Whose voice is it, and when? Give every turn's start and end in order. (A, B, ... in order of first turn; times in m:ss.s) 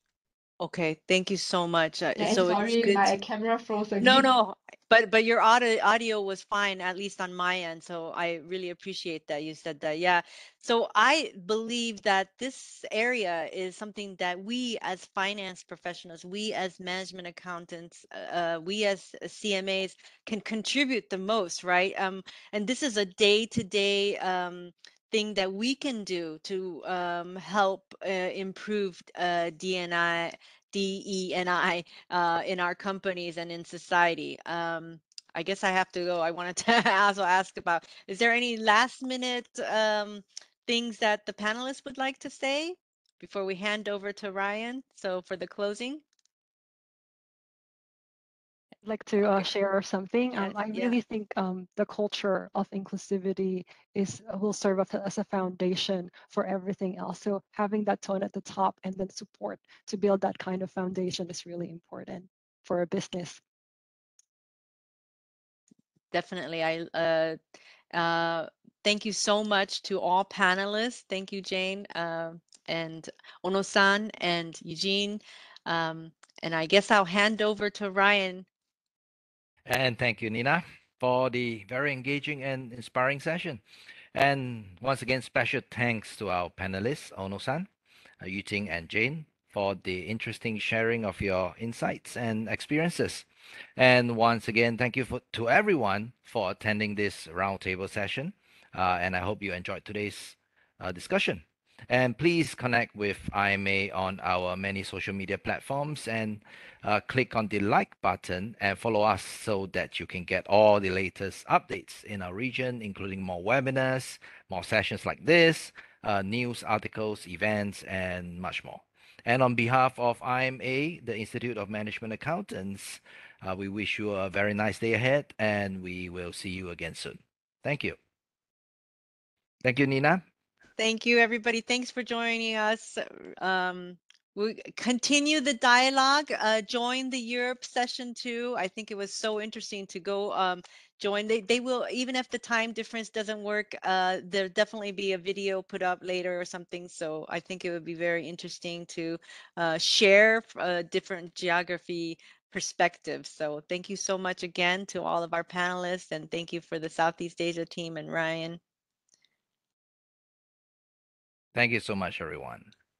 0:00.6-0:03.1 A
0:02.2-0:04.2 B
0:04.0-0:46.0 A
0:48.8-1:03.4 C
0:50.4-0:51.0 A
1:06.1-1:07.4 A
1:07.9-1:18.4 A
1:19.7-1:23.6 D
1:24.1-1:27.7 D
1:28.2-2:08.0 D
2:09.6-2:10.2 D
2:10.8-2:38.6 A
2:41.5-2:42.7 D